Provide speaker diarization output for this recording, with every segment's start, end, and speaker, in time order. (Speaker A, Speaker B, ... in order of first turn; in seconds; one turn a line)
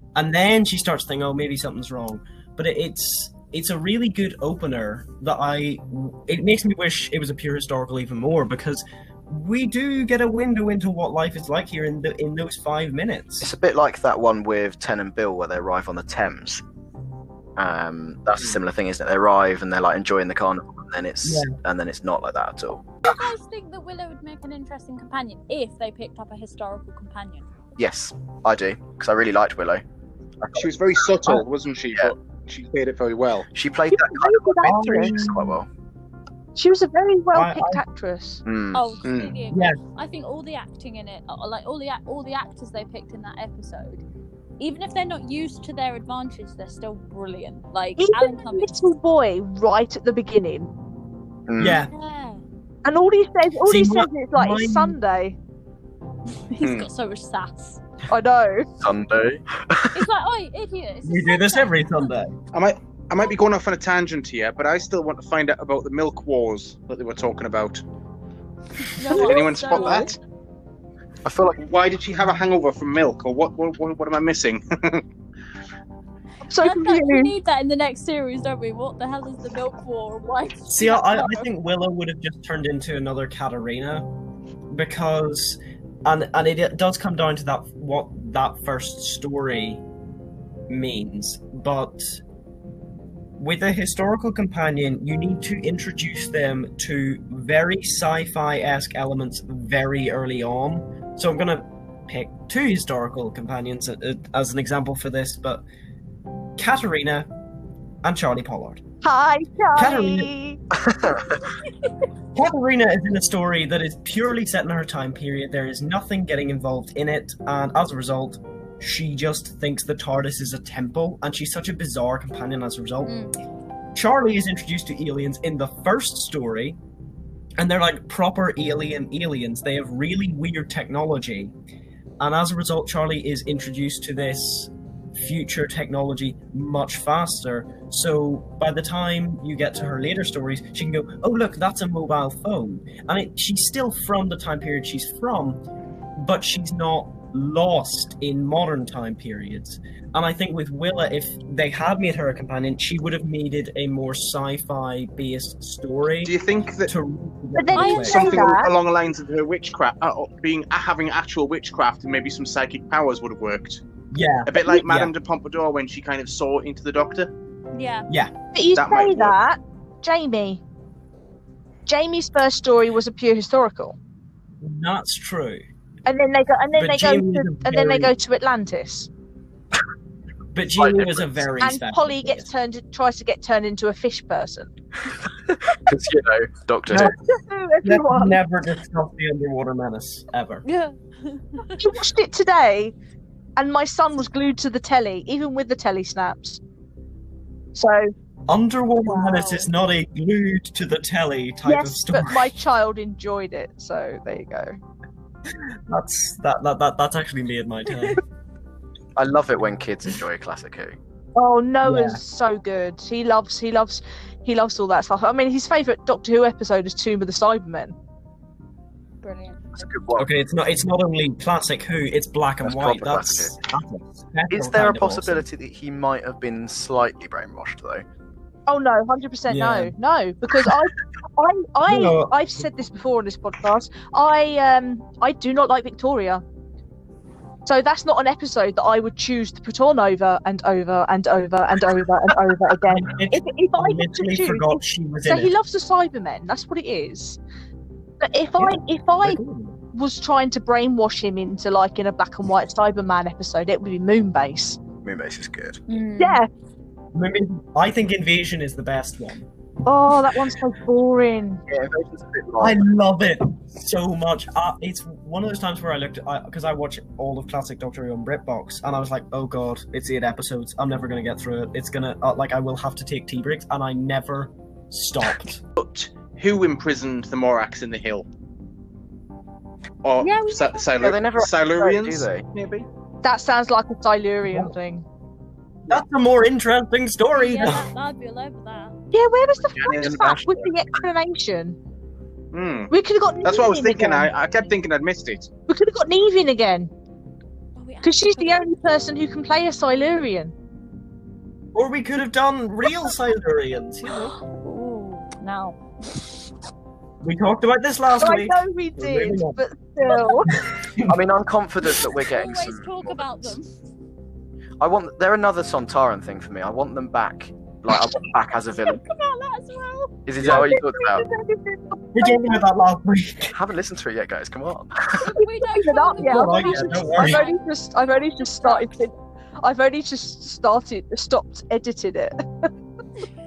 Speaker A: 0.2-13.5
Speaker B: 13.4-16.6
Speaker B: 17.6-22.9
Speaker A: 21.2-21.5
Speaker C: 23.0-27.5
Speaker B: 27.8-29.8
Speaker B: 30.4-30.7
Speaker D: 30.6-33.5
Speaker B: 33.5-35.7
Speaker E: 33.9-35.2
Speaker A: 34.6-35.6
Speaker E: 36.6-38.4
Speaker A: 37.3-37.8
Speaker B: 38.5-38.9
Speaker C: 38.7-44.0
Speaker D: 39.0-39.4
Speaker A: 39.5-39.8
Speaker C: 44.6-48.7
Speaker E: 48.0-50.7
Speaker B: 51.5-51.8
Speaker A: 51.6-51.9
Speaker C: 51.7-52.4
Speaker E: 52.9-55.4
Speaker A: 53.6-55.0
Speaker C: 56.5-57.8
Speaker D: 56.6-56.9
Speaker E: 58.1-58.7
Speaker B: 58.8-60.0
Speaker C: 59.9-62.1
Speaker A: 61.0-62.4
Speaker D: 62.5-67.8
Speaker C: 68.9-70.2
Speaker D: 69.0-70.2
Speaker E: 69.1-70.2
Speaker B: 71.2-71.6
Speaker D: 71.5-75.0
Speaker E: 76.5-77.3
Speaker C: 76.6-81.5
Speaker A: 80.7-84.1
Speaker A: 84.7-89.8
Speaker A: 90.7-92.2
Speaker A: 93.4-105.7
Speaker A: 106.6-107.3
Speaker A: 108.0-108.8
Speaker E: 109.0-110.6
Speaker A: 109.8-110.3
Speaker B: 110.8-111.4
Speaker A: 112.3-123.2
Speaker C: 123.0-123.3
Speaker A: 124.0-126.8
Speaker A: 127.6-131.5
Speaker A: 132.2-145.6
Speaker A: 146.2-156.3
Speaker D: 156.2-156.9
Speaker A: 156.9-158.5
Speaker E: 157.6-158.7
Speaker C: 157.8-158.2
Speaker D: 157.9-163.8
Speaker A: 164.1-165.1
Speaker D: 164.5-167.3
Speaker C: 167.7-168.1
Speaker E: 168.5-170.6
Speaker D: 168.8-169.4
Speaker E: 171.9-174.0
Speaker A: 174.6-175.6
Speaker E: 176.1-179.1
Speaker A: 176.8-178.1
Speaker A: 180.5-182.5
Speaker B: 180.8-181.3
Speaker E: 181.6-184.7
Speaker B: 185.5-187.1
Speaker A: 186.9-187.2
Speaker E: 187.0-188.4
Speaker A: 187.8-190.6
Speaker C: 190.7-191.8
Speaker E: 191.7-192.9
Speaker E: 193.6-196.6
Speaker E: 197.8-198.1
Speaker A: 198.5-202.5
Speaker E: 201.7-204.8
Speaker A: 205.5-208.2
Speaker B: 209.2-211.0
Speaker E: 211.4-217.9
Speaker A: 211.8-212.2
Speaker C: 219.2-219.6
Speaker B: 219.7-220.3
Speaker A: 220.2-225.5
Speaker B: 222.6-223.6
Speaker B: 224.5-228.1
Speaker E: 228.7-236.4
Speaker A: 229.5-229.9
Speaker A: 231.9-232.4
Speaker E: 237.7-247.4
Speaker A: 242.7-245.5
Speaker E: 248.2-249.4
Speaker A: 248.6-249.8
Speaker E: 249.9-254.8
Speaker B: 255.0-255.8
Speaker C: 255.9-256.4
Speaker E: 256.2-256.5
Speaker A: 257.1-259.5
Speaker E: 259.9-261.6
Speaker B: 261.7-262.9
Speaker A: 262.6-275.6
Speaker D: 275.8-278.3
Speaker D: 280.0-282.9
Speaker C: 280.2-280.8
Speaker B: 281.0-282.5
Speaker E: 283.2-285.0
Speaker A: 284.4-284.7
Speaker A: 285.9-287.9
Speaker C: 287.3-289.0
Speaker E: 289.1-291.8
Speaker B: 289.8-290.7
Speaker D: 289.9-290.3
Speaker D: 292.5-295.5
Speaker E: 292.9-294.3
Speaker E: 295.7-296.9
Speaker C: 297.8-298.7
Speaker E: 298.0-300.5
Speaker A: 301.7-304.4
Speaker C: 304.5-306.3
Speaker A: 307.2-309.6
Speaker E: 308.2-310.6
Speaker A: 310.5-311.2
Speaker B: 311.0-313.5
Speaker C: 312.2-313.7
Speaker B: 314.8-319.1
Speaker C: 318.7-320.2
Speaker B: 320.3-321.3
Speaker E: 320.4-322.6
Speaker A: 322.1-323.6
Speaker B: 323.5-325.3
Speaker C: 325.2-327.6
Speaker E: 325.6-332.7
Speaker A: 326.2-327.4
Speaker C: 328.4-328.9